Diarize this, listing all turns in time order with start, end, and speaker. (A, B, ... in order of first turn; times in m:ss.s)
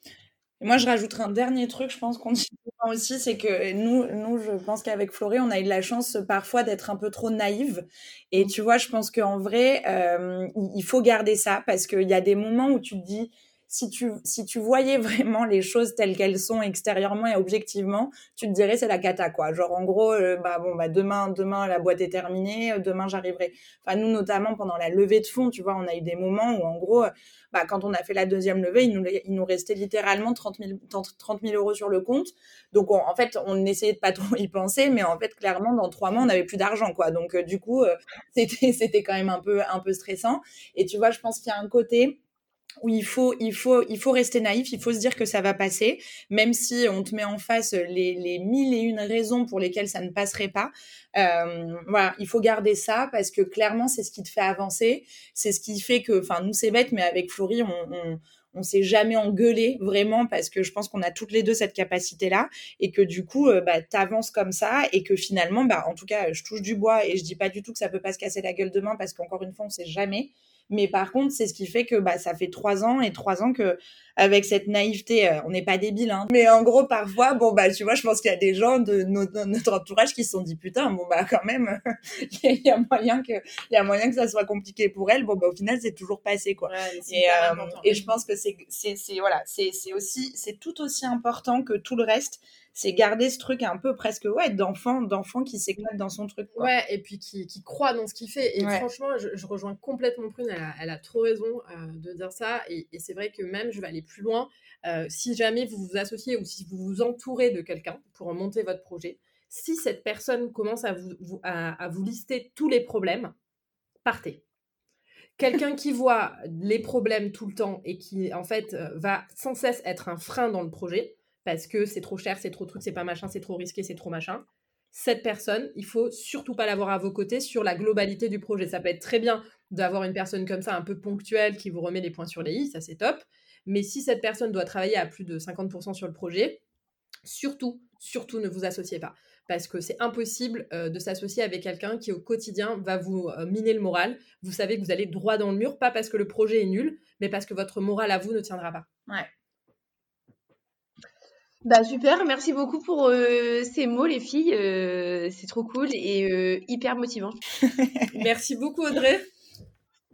0:00.6-0:42.2 A
0:42.8-1:36.7 A
1:26.7-1:28.1 B
1:36.6-1:53.3 B
1:38.6-1:38.9 A
1:54.0-1:54.4 B
1:55.4-2:16.6 B
2:17.2-2:28.9 B
2:31.6-2:37.4 C
2:37.6-2:38.1 A
2:38.1-2:39.3 B